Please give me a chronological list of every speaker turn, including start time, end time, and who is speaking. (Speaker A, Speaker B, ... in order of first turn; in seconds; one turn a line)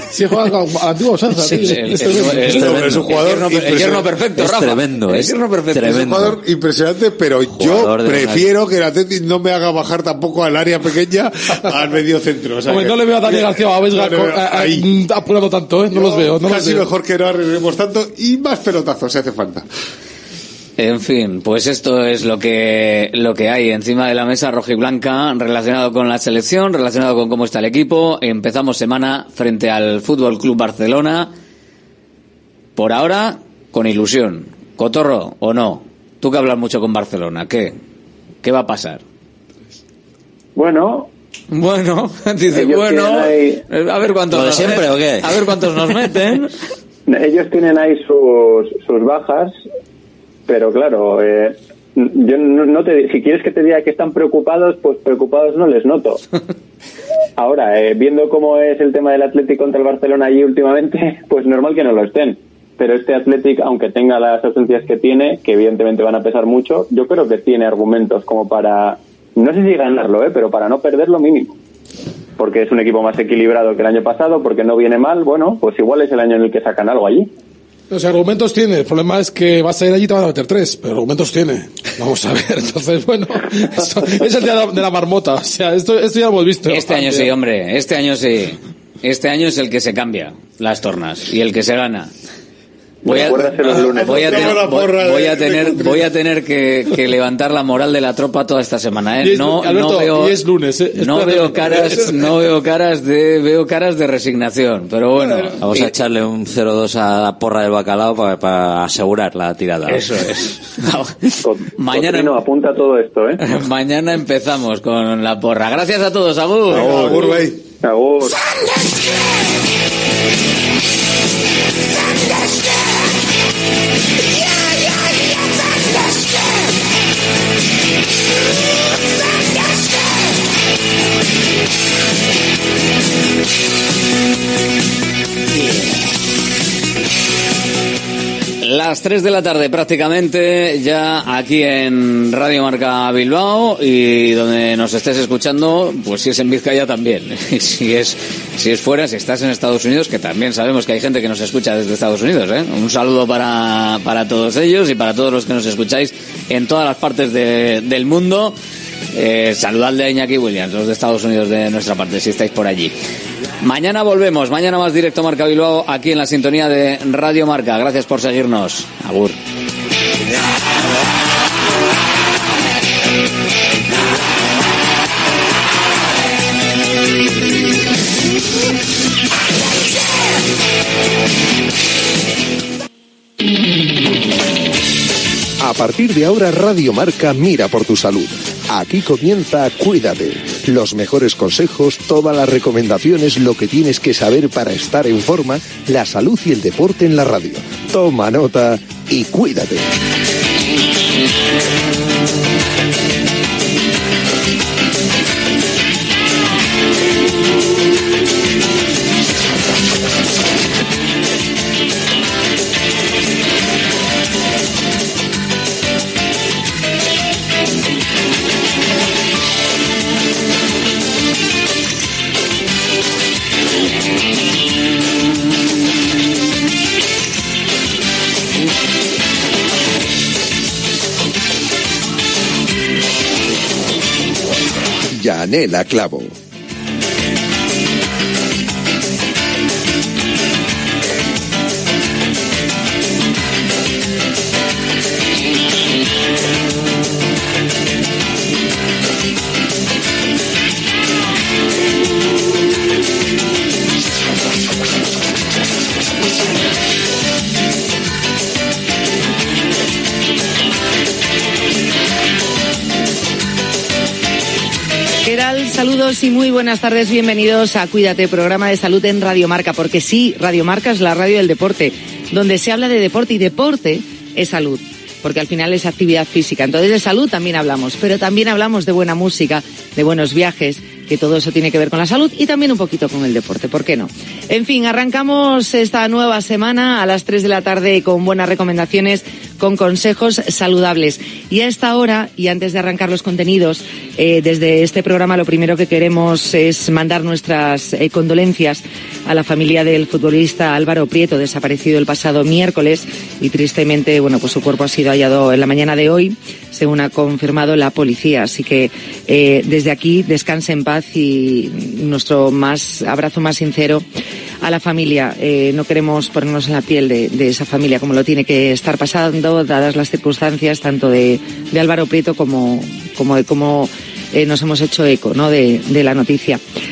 Speaker A: 0.1-2.7
Speaker B: 1.4-5.9
Speaker C: 2.5-3.2
Speaker D: 2.5-4.1
Speaker C: 4.2-6.4
Speaker D: 5.9-14.8
Speaker C: 7.4-8.5
Speaker A: 12.6-16.9
Speaker D: 15.9-19.6
Speaker B: 20.8-31.3
Speaker B: 32.8-37.8
Speaker B: 38.4-39.0
Speaker E: 40.5-41.1
Speaker B: 41.5-46.5
Speaker E: 42.5-43.6
Speaker C: 44.3-45.9
Speaker E: 47.1-49.6
Speaker E: 50.5-56.2
Speaker E: 57.4-71.5
Speaker E: 72.4-77.3
Speaker A: 77.9-87.3
Speaker B: 86.7-92.1
Speaker E: 93.0-94.2
Speaker B: 93.0-100.4
Speaker D: 93.8-96.1
Speaker A: 99.2-102.3
Speaker B: 100.9-105.9
Speaker A: 105.2-105.5
Speaker C: 105.6-110.1
Speaker B: 109.9-112.4
Speaker E: 111.4-113.4
Speaker B: 113.4-117.2
Speaker D: 116.7-117.6
Speaker E: 116.8-118.4
Speaker B: 138.6-158.5
Speaker B: 159.1-162.9
Speaker B: 163.6-169.4
Speaker F: 185.6-199.8
Speaker F: 235.1-236.3
Speaker G: 265.2-314.0
Speaker G: 314.6-326.6